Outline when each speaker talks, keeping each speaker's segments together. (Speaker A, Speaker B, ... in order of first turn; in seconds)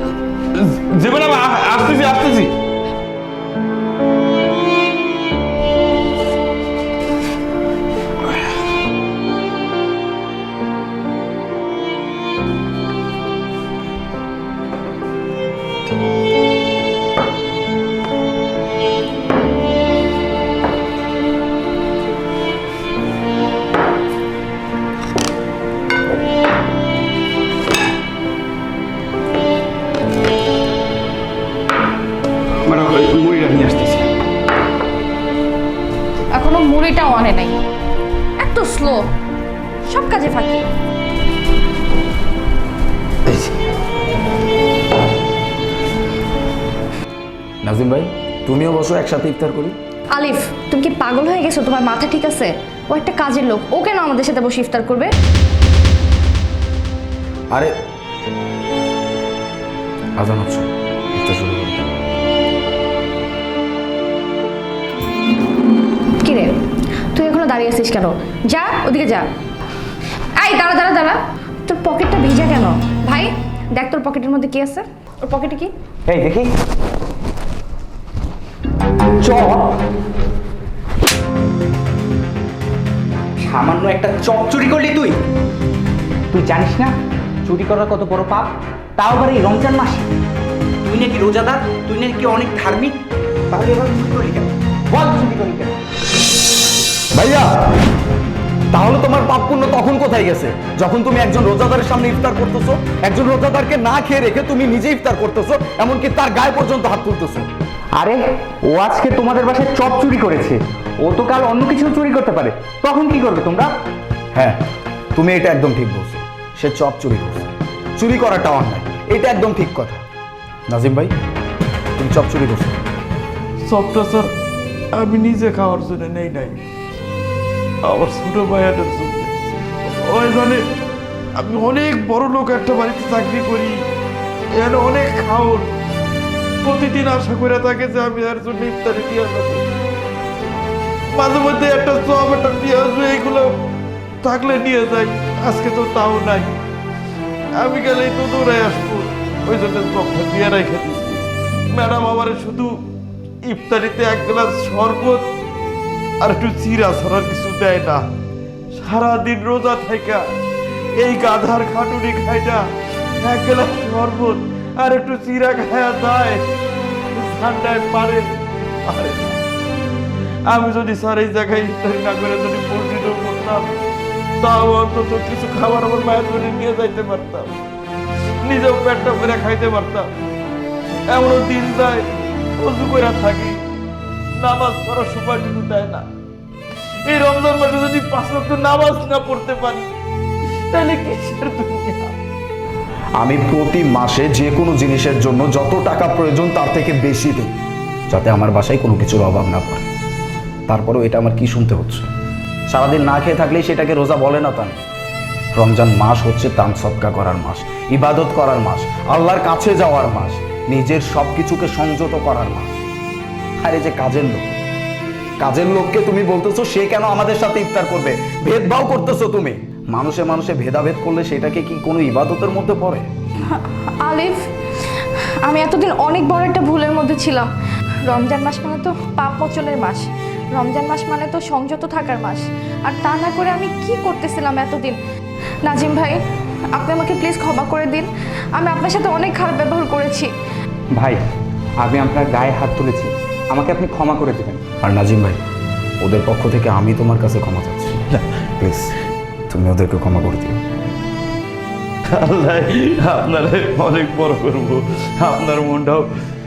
Speaker A: 0.5-2.5, 33.3-33.9, 123.6-124.3, 125.0-126.6, 127.8-130.6, 131.4-133.8, 134.6-135.7, 136.6-139.7, 141.1-143.6, 144.2-146.6, 147.6-152.8, 153.4-155.3, 156.2-158.1, 158.7-160.3, 161.0-162.6, 163.2-166.4, 167.1-168.3, 168.9-169.4, 170.5-173.7, 174.4-177.6, 178.4-180.1, 181.1-183.6, 184.4-186.1, 187.1-189.9, 190.7-192.2, 252.1-256.1
Speaker B: 32.7-34.0, 76.1-76.5, 79.2-79.8, 83.4-85.2, 86.3-90.1, 90.8-95.8, 108.7-113.7, 241.8-244.6
Speaker C: 36.3-37.6, 38.4-39.1, 39.9-40.6, 50.1-55.1, 66.2-66.5, 67.1-69.3, 70.4-75.7, 223.5-224.4, 225.0-227.5, 228.1-235.0, 235.7-236.2, 236.7-240.3
Speaker D: 47.6-49.8, 60.2-61.8, 97.1-97.5, 98.7-107.5, 115.2-120.0, 120.7-121.1, 122.0-122.8, 193.2-197.5, 198.1-199.9, 200.7-202.1, 202.7-204.8, 205.6-212.8, 213.6-214.6, 215.4-223.1, 244.8-245.4, 246.0-248.1, 248.6-248.9, 249.5-250.6